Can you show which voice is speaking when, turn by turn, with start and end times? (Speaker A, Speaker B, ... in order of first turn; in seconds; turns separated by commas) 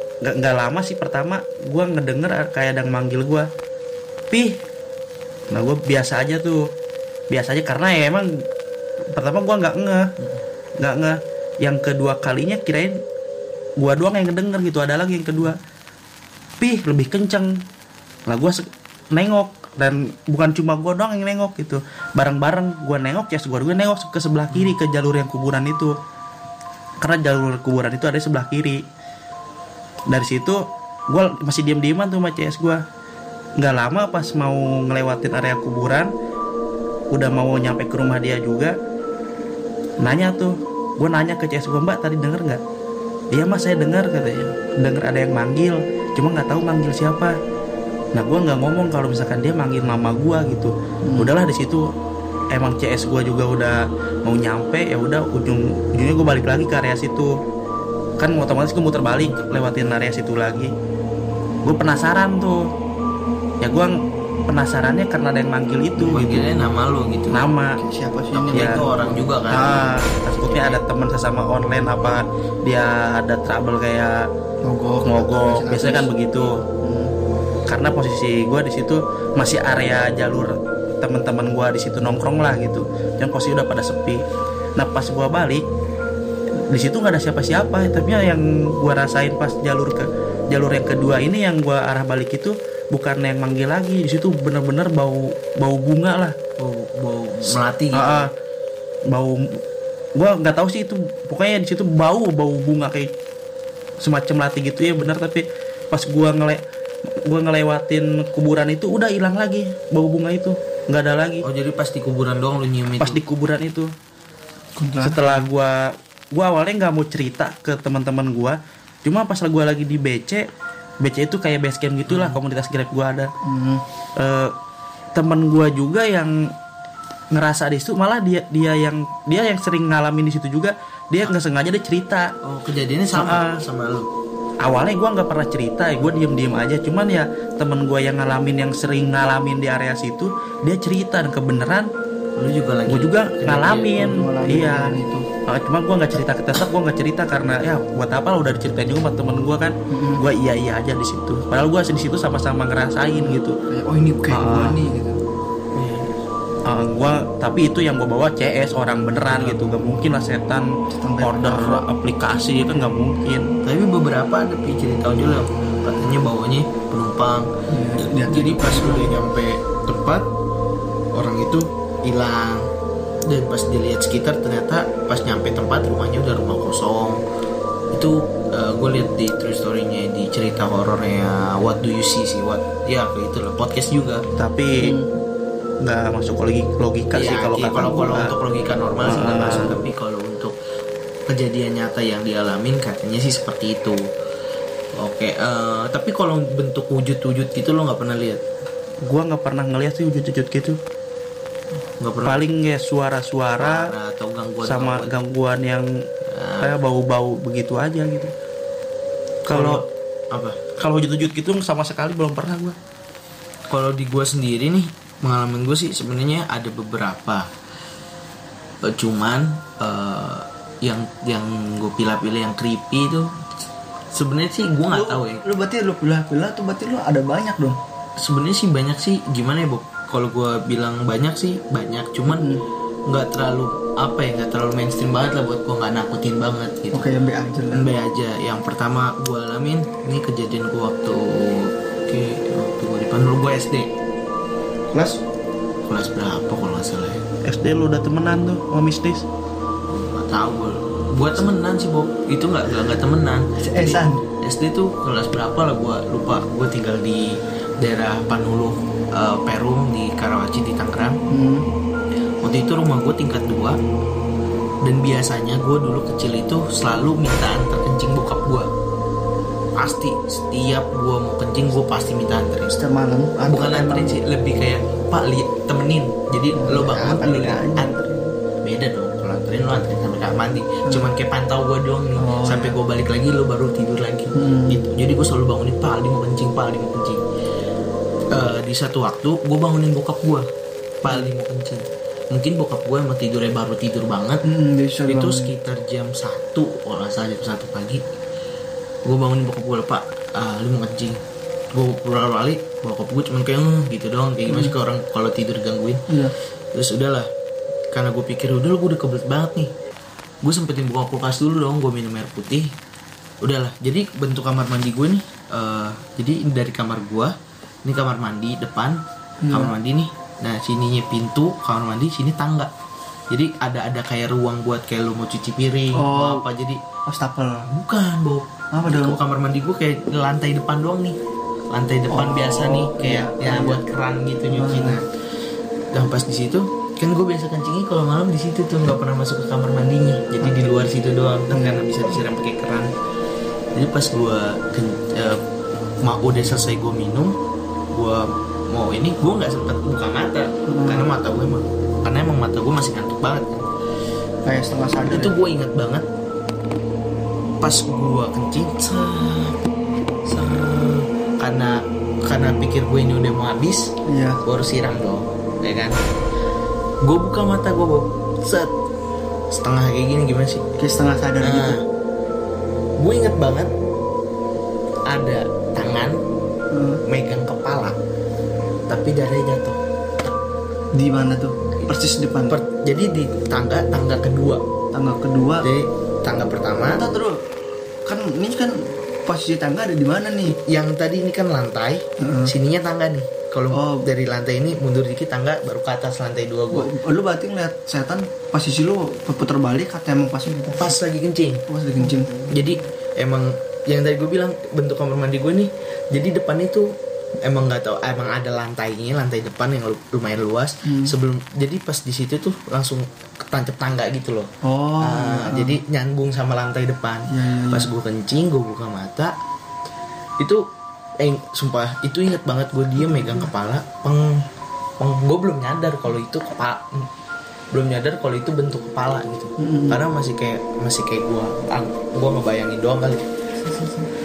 Speaker A: 0.2-3.5, Speaker A: 4.3-4.6, Speaker A: 5.5-6.7, Speaker A: 7.3-8.4, Speaker A: 9.1-10.1, Speaker A: 10.8-13.0, Speaker A: 13.8-15.6, Speaker A: 16.6-17.6, Speaker A: 18.3-26.0, Speaker A: 27.0-28.8, Speaker A: 30.1-32.8, Speaker A: 33.6-36.1, Speaker A: 37.1-38.8, Speaker A: 40.0-42.6, Speaker A: 43.3-47.4, Speaker A: 48.1-51.9, Speaker B: 51.0-51.3, Speaker A: 52.5-57.4, Speaker A: 58.2-60.7, Speaker A: 61.6-62.7, Speaker A: 63.6-66.5, Speaker C: 66.1-67.5, Speaker A: 67.3-67.8, Speaker B: 67.7-69.2, Speaker C: 68.3-70.8, Speaker A: 68.5-68.8, Speaker A: 69.5-74.3, Speaker B: 74.6-77.1, Speaker A: 75.0-76.6, Speaker A: 77.7-84.2, Speaker A: 84.8-85.7, Speaker A: 86.6-96.3, Speaker C: 96.6-98.3, Speaker A: 97.5-98.3, Speaker A: 99.1-99.6, Speaker A: 100.2-103.1, Speaker A: 104.0-111.5, Speaker C: 111.4-113.2, Speaker A: 113.0-113.9, Speaker B: 114.8-115.5, Speaker A: 115.0-120.5, Speaker A: 121.0-123.3, Speaker C: 122.1-122.4, Speaker B: 123.4-123.8, Speaker A: 124.2-124.5, Speaker A: 125.2-126.5, Speaker A: 127.3-132.3, Speaker C: 132.4-134.1, Speaker A: 133.2-133.4, Speaker A: 134.6-141.9, Speaker C: 142.4-144.0, Speaker A: 142.9-144.9, Speaker B: 143.9-145.3, Speaker A: 145.5-153.6, Speaker B: 149.9-150.2, Speaker B: 153.1-155.2, Speaker A: 154.3-154.8, Speaker C: 155.8-156.1, Speaker A: 156.7-163.5, Speaker B: 160.9-161.9, Speaker C: 163.6-167.5, Speaker B: 167.7-169.2, Speaker C: 168.0-170.3, Speaker C: 171.1-172.7, Speaker C: 173.3-177.2, Speaker C: 177.9-184.3, Speaker A: 184.4-184.9, Speaker B: 184.8-185.1, Speaker A: 185.8-188.3, Speaker C: 187.1-190.6, Speaker A: 189.1-189.8, Speaker C: 191.3-194.1, Speaker C: 195.0-198.4, Speaker A: 199.1-200.8, Speaker C: 202.0-202.4, Speaker A: 202.2-203.9, Speaker C: 203.6-205.2, Speaker A: 204.6-205.9, Speaker C: 206.2-206.8, Speaker A: 206.6-208.3, Speaker A: 209.5-209.8, Speaker C: 209.5-210.6, Speaker A: 210.8-212.8, Speaker C: 213.7-217.5, Speaker C: 218.8-223.4, Speaker C: 224.1-225.4, Speaker B: 224.9-227.8, Speaker C: 228.2-232.5, Speaker B: 232.3-232.6, Speaker C: 233.1-243.9, Speaker B: 236.9-237.9, Speaker B: 244.9-245.2, Speaker C: 245.9-247.2, Speaker A: 247.4-249.2, Speaker C: 249.9-261.2, Speaker B: 253.6-254.2, Speaker B: 261.3-261.7, Speaker C: 262.4-263.8, Speaker C: 264.8-268.7, Speaker C: 269.8-272.8, Speaker B: 272.7-274.2, Speaker C: 273.5-277.9, Speaker B: 276.5-278.3, Speaker C: 278.6-287.2, Speaker B: 282.2-282.8, Speaker B: 284.3-284.8, Speaker C: 288.3-290.5, Speaker C: 291.0-294.4, Speaker B: 294.4-295.5, Speaker C: 295.1-298.0, Speaker C: 299.1-301.2, Speaker C: 301.7-306.1, Speaker B: 304.5-304.7, Speaker C: 306.7-307.3, Speaker C: 307.9-309.7, Speaker C: 310.4-312.7, Speaker C: 313.4-317.3, Speaker C: 317.9-319.0, Speaker B: 319.4-319.8, Speaker C: 319.5-322.7, Speaker C: 323.3-326.8, Speaker B: 325.9-326.5, Speaker B: 327.1-327.7, Speaker C: 327.7-331.2, Speaker B: 328.7-329.2, Speaker C: 331.7-335.1, Speaker B: 332.1-333.8, Speaker B: 334.5-335.0, Speaker C: 335.9-342.9, Speaker B: 341.5-342.1, Speaker C: 343.7-345.4, Speaker C: 346.0-347.4, Speaker C: 347.9-353.7, Speaker B: 350.7-351.1, Speaker B: 354.4-355.3, Speaker C: 355.0-356.1, Speaker C: 357.6-359.6, Speaker C: 360.2-363.9, Speaker B: 364.1-364.4, Speaker C: 364.4-366.0, Speaker C: 367.0-368.7, Speaker C: 369.5-370.6, Speaker B: 370.8-371.8, Speaker C: 371.4-371.8, Speaker C: 373.0-373.7, Speaker C: 375.1-376.2, Speaker B: 376.7-377.0, Speaker C: 377.1-378.0, Speaker C: 378.9-380.3, Speaker B: 380.9-382.6, Speaker C: 382.5-384.6, Speaker B: 384.9-385.7, Speaker C: 385.6-387.0, Speaker B: 386.9-390.6, Speaker C: 390.4-396.9, Speaker B: 392.2-392.5, Speaker B: 393.7-394.1, Speaker B: 396.7-401.0, Speaker C: 400.8-401.6, Speaker B: 401.7-402.5, Speaker C: 402.5-419.4, Speaker B: 410.8-411.1, Speaker B: 414.6-415.8, Speaker B: 417.3-417.9, Speaker C: 420.4-420.6, Speaker C: 421.2-424.5, Speaker B: 423.1-423.5, Speaker C: 425.0-427.1, Speaker C: 427.7-433.3, Speaker B: 429.6-430.0, Speaker B: 433.6-434.1